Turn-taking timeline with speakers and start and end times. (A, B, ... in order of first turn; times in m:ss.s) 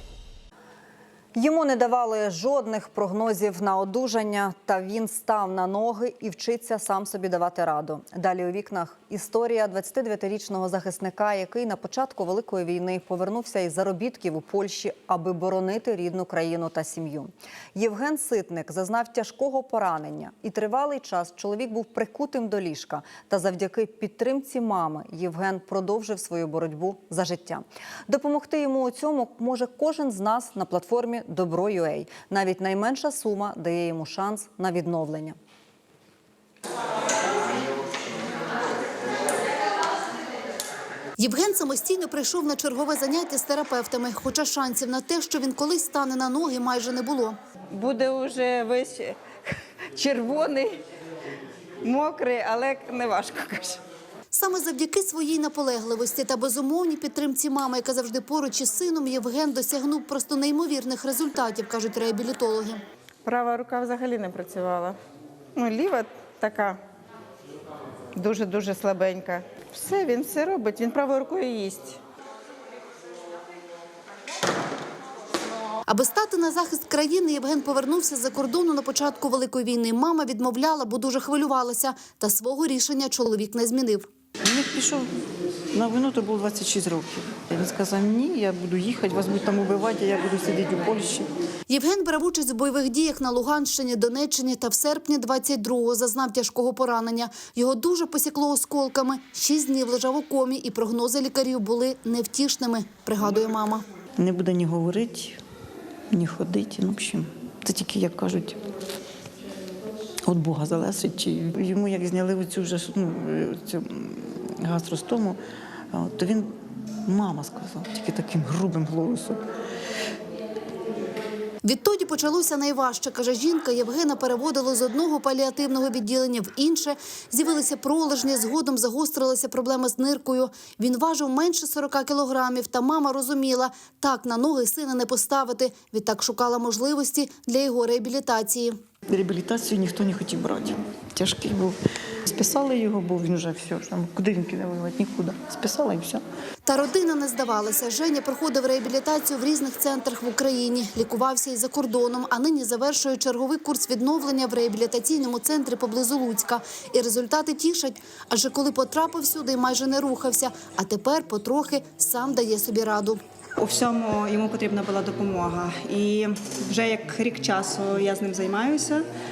0:01.3-0:35.4 A
0:41.2-0:47.4 B
0:47.7-0:50.8 C
0:51.8-0:53.8 C
0:54.3-1:02.8 B
1:03.2-1:05.0 C
1:05.5-1:06.8 C
1:08.1-1:12.0 C
1:15.9-1:24.1 B
1:24.4-1:25.1 D
1:25.7-1:31.3 D
1:31.7-1:43.8 B
1:44.2-1:45.4 D
1:46.1-1:48.6 D
1:50.2-1:55.4 D
1:55.9-1:59.4 D
2:01.6-2:18.7 B
2:19.1-2:26.2 D
2:26.6-2:43.2 B
2:43.6-2:49.0 E